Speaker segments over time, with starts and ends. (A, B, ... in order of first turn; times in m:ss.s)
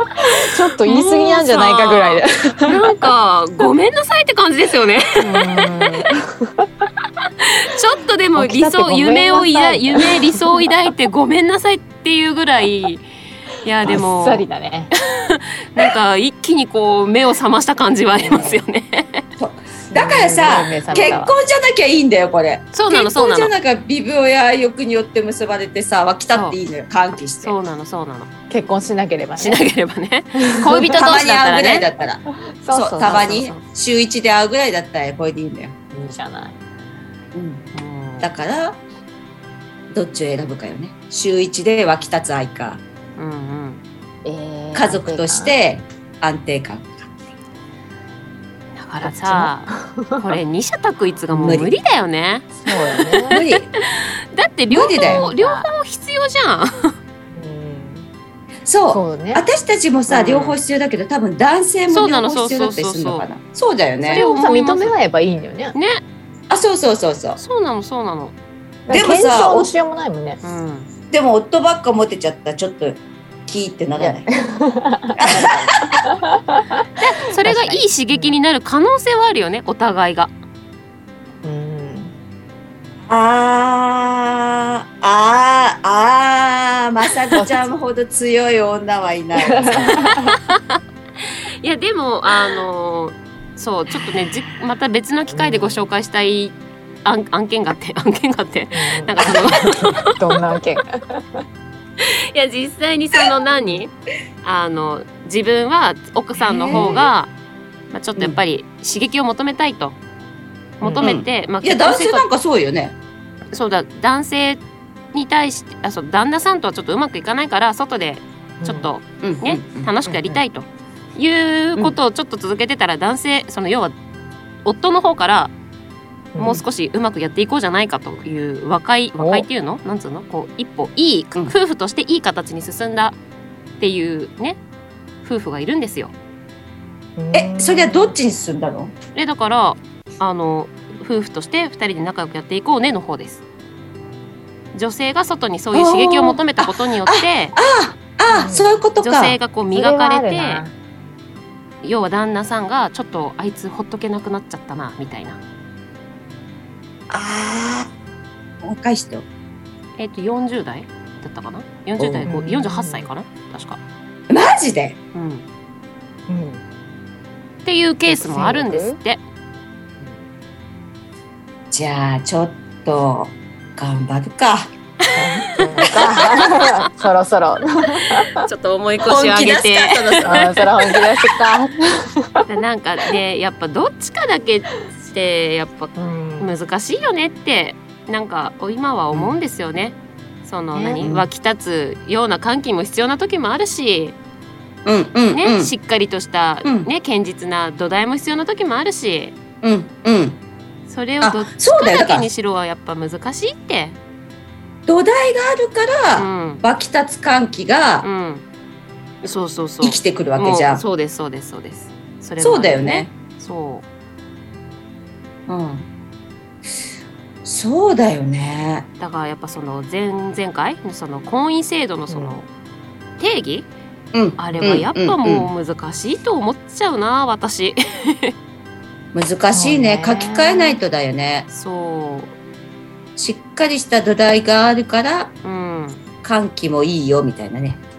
0:00.1-0:02.8 A
0:00.8-0:05.9 B
0:05.2-0:06.7 A
0:07.4-0:13.0 B
0:08.4-0:10.6 A
0:13.6-0:14.4 B
0:13.8-0:14.9 A
0:15.1-0:19.2 B
0:18.2-0:18.6 A
0:19.4-0:27.5 C
0:19.9-0:21.3 A
0:22.7-0:23.5 B
0:26.3-0:26.6 B
0:27.4-0:28.3 B
0:28.5-0:29.6 A
0:29.4-0:31.9 B
0:30.4-0:31.0 A
0:30.9-0:32.2 C
0:32.5-0:33.5 A
0:32.7-0:35.7 C
0:35.9-0:36.6 A
0:37.3-0:37.7 C
0:37.7-0:38.3 B
0:38.2-0:38.8 C
0:39.9-0:42.8 C
0:43.2-0:43.8 B
0:44.2-0:45.6 A
0:44.7-0:47.1 C
0:48.8-0:56.9 B
0:49.0-0:50.3 A
0:51.3-0:51.7 C
0:52.6-0:53.4 A
0:53.3-0:53.7 C
0:54.7-0:55.3 C
0:55.0-0:55.7 A
0:57.3-0:58.1 A
0:58.6-1:04.2 C
0:58.9-0:59.4 A
1:00.1-1:00.6 B
1:01.9-1:03.3 B
1:04.0-1:05.8 A
1:04.1-1:04.9 B
1:05.7-1:06.0 B
1:06.5-1:07.4 C
1:07.4-1:08.3 B
1:08.9-1:10.4 A
1:08.9-1:09.7 C
1:10.4-1:10.9 B
1:11.1-1:14.2 C
1:14.0-1:16.8 A
1:15.2-1:16.0 C
1:17.0-1:20.3 B
1:17.4-1:18.4 A
1:21.4-1:22.1 A
1:23.1-1:30.1 C
1:27.3-1:27.7 A
1:29.3-1:30.3 A
1:30.5-1:30.8 B
1:31.6-1:40.1 B
1:35.3-1:35.8 A
1:38.7-1:41.4 A
1:42.0-1:43.9 B
1:44.4-1:47.3 B
1:46.4-1:47.0 C
1:46.7-1:47.1 A
1:47.9-1:50.0 B
1:50.8-1:52.2 B
1:50.8-1:51.1 A
1:51.0-1:53.0 C
1:53.5-1:54.6 B
1:55.1-2:03.9 B
1:58.6-1:58.9 A
1:59.2-1:59.9 C
2:00.1-2:00.4 A
2:04.6-2:05.5 B
2:06.3-2:06.6 A
2:06.4-2:13.2 B
2:09.2-2:09.4 A
2:13.8-2:14.6 B
2:15.2-2:16.1 B
2:17.2-2:18.2 A
2:17.3-2:18.9 C
2:19.1-2:23.4 B
2:24.7-2:27.5 B
2:25.7-2:29.4 C
2:28.3-2:28.8 A
2:29.0-2:30.6 B
2:29.7-2:30.7 A
2:31.8-2:35.4 B
2:37.1-2:37.9 C
2:38.6-2:39.2 C
2:40.0-2:43.8 B
2:42.0-2:42.3 C
2:42.3-2:43.1 A
2:44.3-2:45.0 C
2:45.1-2:45.4 B
2:46.3-2:46.6 A
2:47.6-2:49.2 B
2:48.1-2:49.0 A
2:51.7-2:54.7 C
2:55.1-2:56.9 B
2:55.1-2:58.4 A
2:58.4-3:01.0 B
2:59.0-3:00.6 C
3:00.2-3:02.4 A
3:02.5-3:14.2 B
3:06.0-3:06.5 A
3:09.1-3:09.4 C
3:10.7-3:11.1 A
3:11.0-3:11.3 C
3:14.8-3:15.7 C
3:15.3-3:19.4 B
3:16.6-3:16.9 C
3:19.6-3:20.4 C
3:20.9-3:24.0 B
3:21.2-3:22.3 C
3:24.9-3:28.1 C
3:26.2-3:26.6 B
3:28.0-3:28.4 B
3:29.2-3:33.8 B
3:29.8-3:30.8 C
3:32.4-3:33.1 C
3:35.5-3:35.9 C
3:37.4-3:38.9 C
3:39.0-3:42.5 B
3:42.1-3:42.4 A
3:43.2-3:43.7 B
3:44.1-3:45.5 C
3:44.4-3:48.3 B
3:44.5-3:44.8 A
3:49.1-3:51.5 C
3:49.5-3:50.8 A
3:51.5-3:52.3 B
3:53.2-3:55.3 C
3:55.4-3:56.0 B
3:56.2-3:57.8 C